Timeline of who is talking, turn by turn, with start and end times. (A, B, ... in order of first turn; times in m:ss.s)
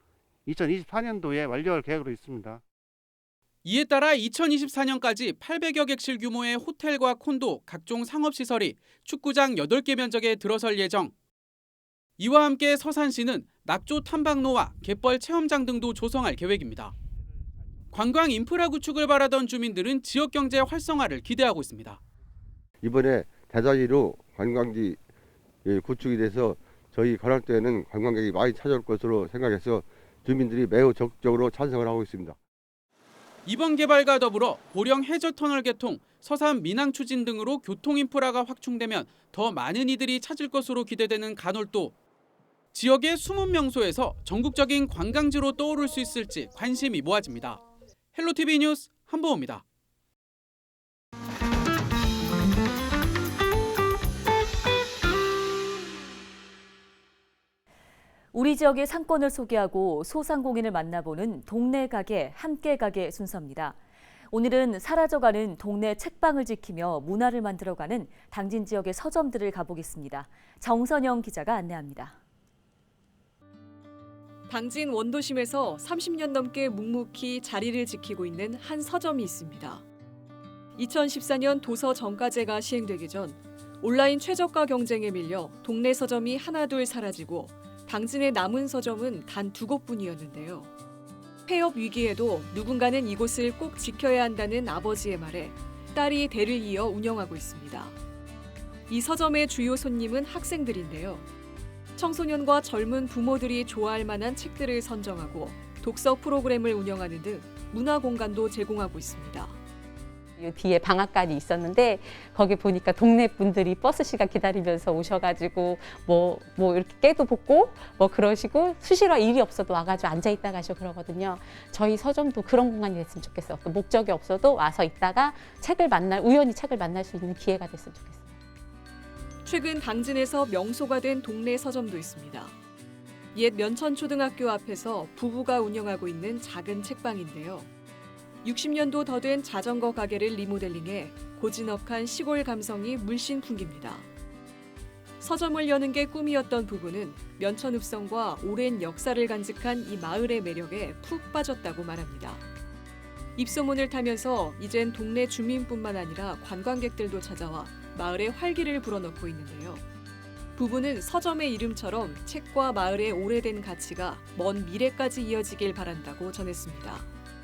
0:00.4-0:02.6 A
0:03.6-0:11.1 B
0:12.2-0:16.9 B
0:17.9-0:22.0 B
0:22.8-0:25.0 A
0:25.6-0:32.4 A
0:33.4-0:41.9 B
0:42.7-0:47.6 B
0:48.1-0:49.6 B
0:58.3-1:03.8 C
1:04.3-1:12.2 C
1:14.5-1:19.8 D
1:20.8-1:30.7 D
1:31.4-1:38.0 D
1:38.9-1:41.2 D
1:42.0-1:49.6 D
1:50.4-2:08.3 E
2:09.4-2:12.6 D
2:13.3-2:17.7 D
2:18.4-2:24.1 D
2:25.2-2:32.4 D
2:33.4-2:39.8 D
2:40.6-2:47.1 D